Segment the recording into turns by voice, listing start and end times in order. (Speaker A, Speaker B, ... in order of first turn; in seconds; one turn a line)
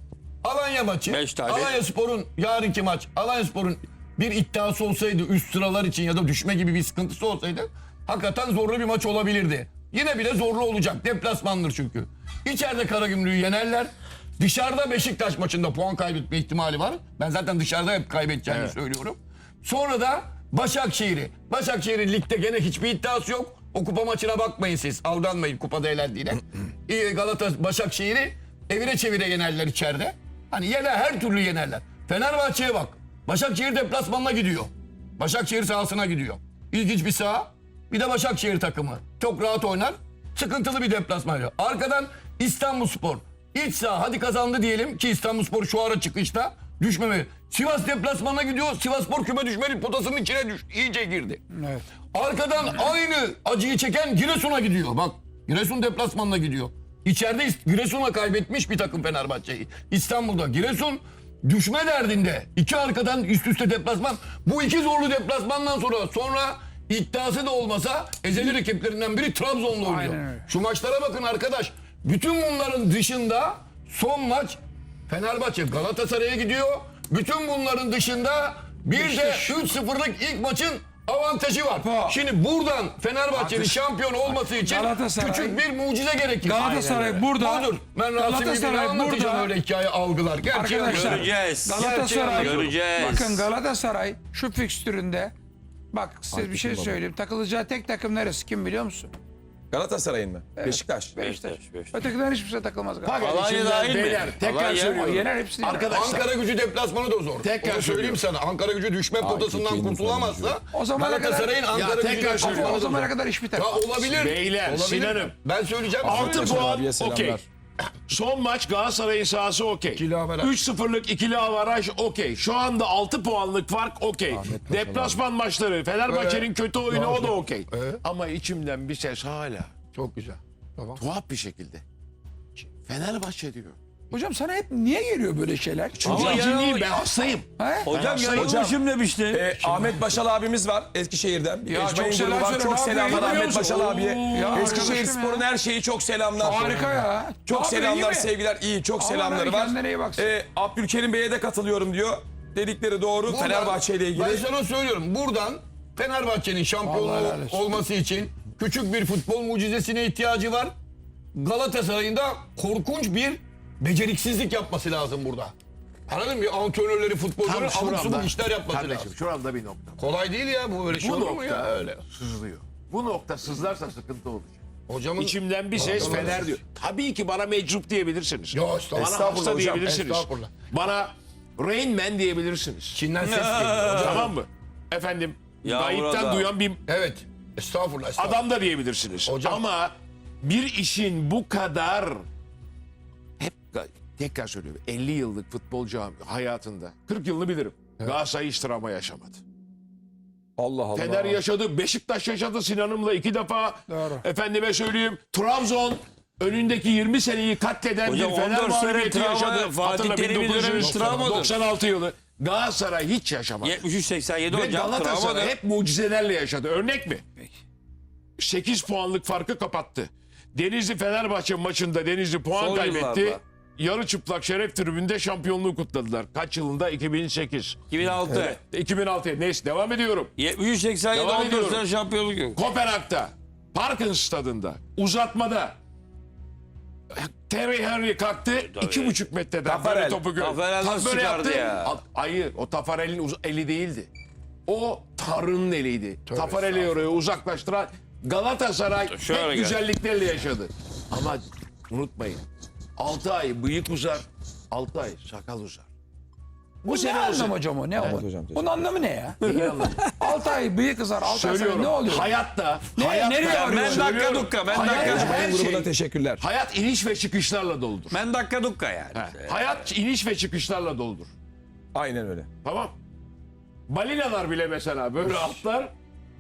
Speaker A: 0.4-51.4
Speaker B: 1.1-1.8
Speaker C: 18.5-18.8
Speaker D: 51.5-51.8
Speaker A: 52.1-86.7
Speaker D: 69.8-70.5
Speaker D: 78.9-79.7
Speaker D: 81.8-82.2
Speaker C: 83.4-83.7
Speaker D: 84.3-85.6
Speaker D: 86.4-89.5
Speaker C: 86.5-87.4
Speaker A: 87.3-92.7
Speaker D: 90.5-95.3
Speaker B: 90.9-93.4
Speaker D: 95.9-99.1
Speaker E: 96.3-97.0
Speaker E: 99.7-101.2
Speaker D: 100.6-103.3
Speaker B: 101.2-102.0
Speaker C: 103.0-106.3
Speaker B: 103.2-105.0
Speaker D: 104.6-105.9
Speaker A: 105.9-116.7
Speaker C: 107.4-108.2
Speaker E: 109.2-110.6
Speaker D: 110.7-111.6
Speaker C: 111.7-113.1
Speaker D: 112.4-113.9
Speaker C: 114.0-115.3
Speaker C: 116.0-117.4
Speaker E: 116.0-117.5
Speaker C: 118.1-129.7
Speaker A: 119.9-120.5
Speaker E: 124.3-125.2
Speaker A: 126.1-128.0
Speaker A: 129.9-131.0
Speaker C: 131.0-131.8
Speaker C: 132.7-133.8
Speaker D: 134.1-136.5
Speaker C: 136.0-138.6
Speaker B: 136.0-137.0
Speaker D: 137.6-137.9
Speaker B: 137.8-139.4
Speaker E: 138.3-138.8
Speaker E: 139.3-154.4
Speaker D: 139.6-140.1
Speaker D: 141.6-145.4
Speaker C: 143.5-145.0
Speaker D: 146.4-148.3
Speaker D: 149.0-150.3
Speaker A: 153.2-160.7
Speaker D: 156.8-157.7
Speaker A: 161.3-165.5
Speaker A: 166.1-169.1
Speaker C: 167.4-170.1
Speaker A: 170.0-172.0
Speaker C: 170.9-174.6
Speaker A: 174.9-176.6
Speaker C: 175.2-183.0
Speaker A: 178.5-180.5
Speaker E: 179.0-179.9
Speaker A: 182.9-184.3
Speaker B: 183.2-184.3
Speaker C: 183.9-186.8
Speaker B: 185.6-186.5
Speaker A: 186.9-188.4
Speaker C: 188.2-192.2
Speaker A: 189.2-189.6
Speaker C: 193.4-199.4
Speaker E: 200.6-201.4
Speaker C: 200.9-213.8
Speaker D: 203.9-204.2
Speaker B: 208.0-211.6
Speaker A: 210.7-211.5
Speaker B: 213.6-215.6
Speaker C: 214.5-217.3
Speaker C: 218.4-227.8
Speaker B: 222.6-223.4
Speaker B: 227.9-228.6
Speaker C: 228.3-230.3
Speaker B: 230.4-232.6
Speaker C: 231.1-231.8
Speaker C: 232.6-235.8
Speaker C: 237.1-244.1
Speaker B: 238.6-239.2
Speaker E: 239.6-240.3
Speaker B: 240.4-241.9
Speaker C: 244.7-252.4
Speaker A: 246.3-246.9
Speaker B: 249.1-249.8
Speaker C: 253.0-255.9
Speaker C: 256.8-258.2
Speaker D: 256.9-262.4
Speaker E: 258.0-258.6
Speaker C: 259.4-260.0
Speaker B: 259.8-260.3
Speaker C: 261.2-268.2
Speaker D: 262.9-264.5
Speaker B: 263.4-265.6
Speaker E: 264.8-266.4
Speaker B: 268.1-269.7
Speaker C: 269.1-271.3
Speaker E: 271.9-272.5
Speaker C: 272.6-272.9
Speaker C: 273.9-275.9
Speaker E: 275.3-275.6